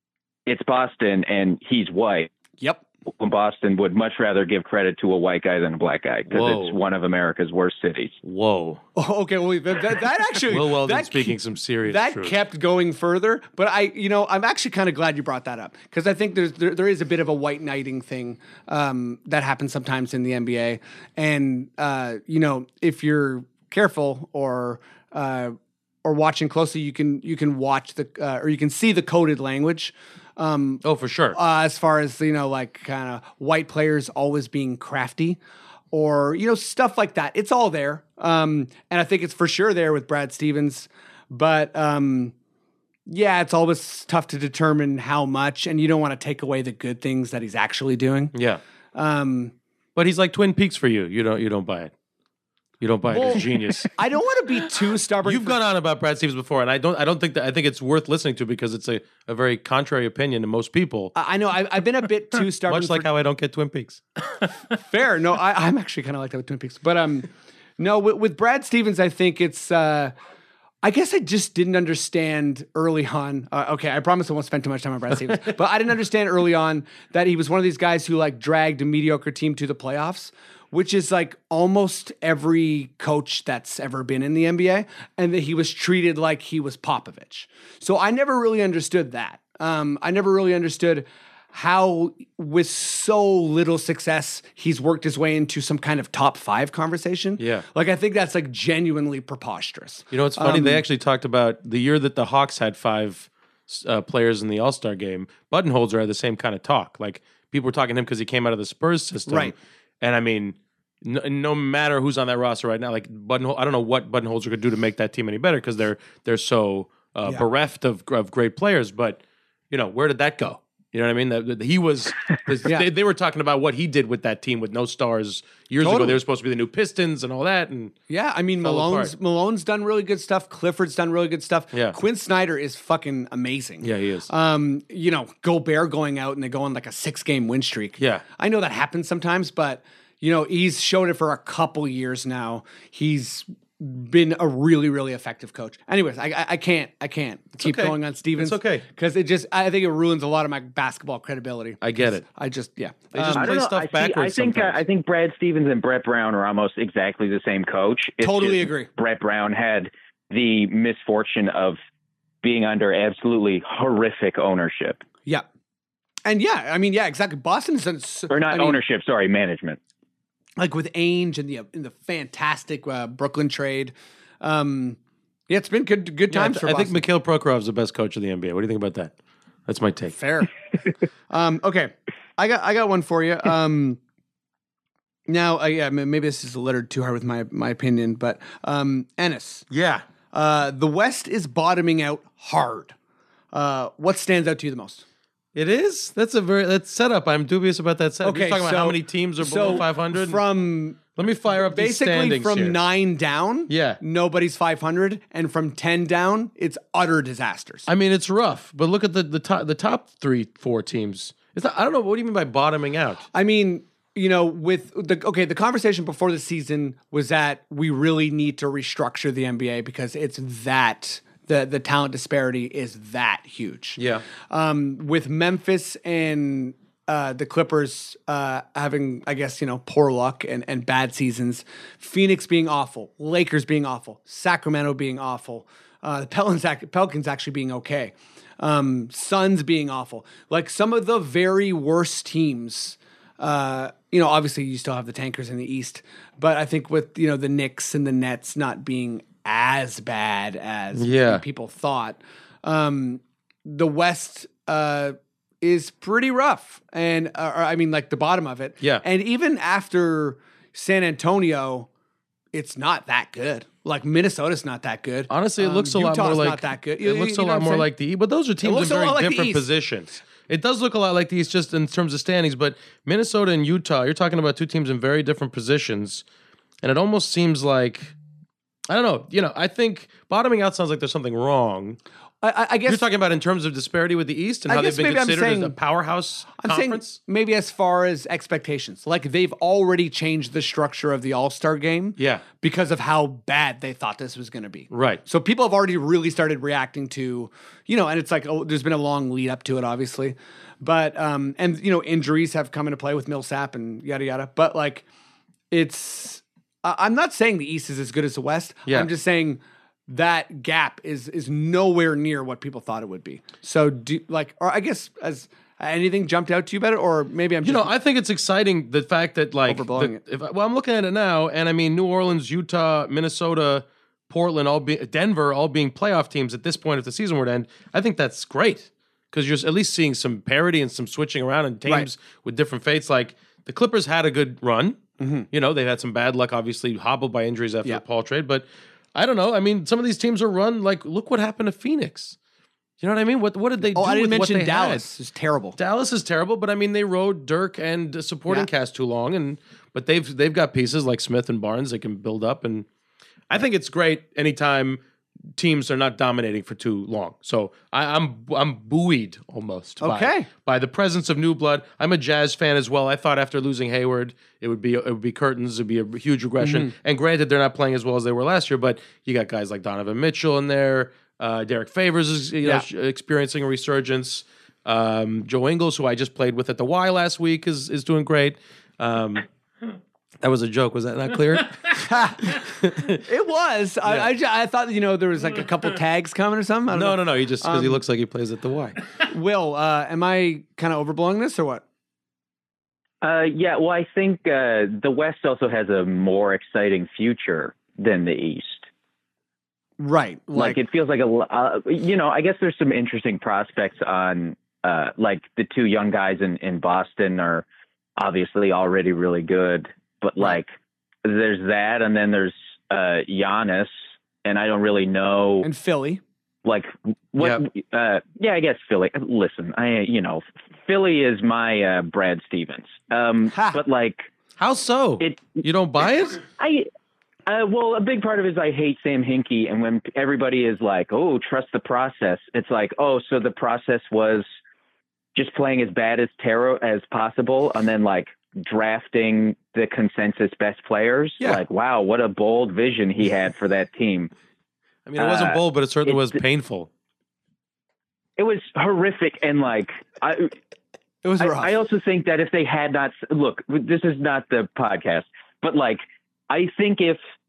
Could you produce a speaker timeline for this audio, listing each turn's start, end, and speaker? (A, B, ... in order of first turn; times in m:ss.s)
0:00.5-0:02.3 A
0:03.1-0:08.2 A
0:06.3-0:06.8 B
0:08.2-0:08.8 B
0:09.0-0:35.4 C
0:10.5-0:12.3 B
0:30.8-0:31.4 B
0:35.9-0:42.3 C
0:43.1-0:48.3 C
0:48.3-0:48.6 B
0:49.0-0:49.5 C
0:50.0-0:51.9 B
0:52.8-0:53.9 B
0:53.1-0:55.6 C
0:55.2-1:01.1 B
1:01.2-1:03.1 C
1:02.7-1:04.0 B
1:04.7-1:10.1 C
1:10.8-1:40.8 C
1:37.4-1:37.6 B
1:40.1-1:59.2 B
1:49.3-1:49.6 C
1:59.7-2:08.0 B
2:05.8-2:06.2 C
2:08.1-2:33.5 C
2:08.6-2:09.1 B
2:13.8-2:14.3 B
2:18.0-2:18.2 B
2:27.6-2:28.9 B
2:31.8-2:32.2 B
2:33.1-2:34.8 B
2:33.3-2:41.8 A
2:38.2-2:38.9 C
2:42.4-2:45.0 A
2:46.3-2:48.8 C
2:48.3-2:49.8 A
2:50.6-2:55.0 C
2:55.5-2:57.0 C
2:56.3-2:59.1 B
2:59.7-3:00.2 B
3:00.1-3:00.5 C
3:01.3-3:04.0 C
3:05.3-3:09.6 C
3:09.7-3:10.0 B
3:10.3-3:13.0 C
3:13.5-3:15.0 C
3:15.6-3:20.4 B
3:18.2-3:27.9 C
3:21.2-3:22.8 B
3:23.7-3:24.0 B
3:27.9-3:33.2 B
3:33.3-4:21.9 C
3:44.0-3:44.2 B
4:11.0-4:11.4 B
4:22.5-4:27.9 C
4:25.3-4:36.2 B
4:28.6-4:29.6 C
4:36.8-4:38.1 B
4:38.9-4:42.0 B
4:42.4-4:43.0 C
4:42.9-4:47.2 B
4:44.7-4:45.8 C
4:46.6-5:05.0 C
4:52.2-4:52.4 B
4:54.9-4:55.2 B
5:05.7-5:17.9 C
5:17.6-5:35.0 B
5:19.7-5:20.2 C
5:35.2-5:35.5 C
5:35.5-5:42.4 B
5:43.0-5:45.0 B
5:43.9-5:45.8 C
5:45.8-5:52.9 B
5:53.5-5:55.0 B
5:55.6-6:19.5 B
6:00.0-6:00.5 C
6:06.6-6:06.9 C
6:20.4-6:23.2 B
6:22.0-6:28.0 C
6:26.9-6:29.0 B
6:29.3-6:31.8 C
6:33.2-6:38.9 A
6:40.0-6:40.8 C
6:40.6-6:47.6 A
6:48.2-6:50.7 A
6:51.2-6:55.7 A
6:55.6-6:56.2 C
6:56.6-7:04.3 A
7:03.5-7:03.8 C
7:04.6-7:06.4 B
7:05.2-7:05.6 A
7:06.5-7:06.9 A
7:07.5-7:14.5 A
7:15.4-7:24.3 A
7:25.1-7:26.9 B
7:25.2-7:26.4 A
7:28.4-7:30.6 A
7:31.2-7:31.8 C
7:31.4-7:37.2 A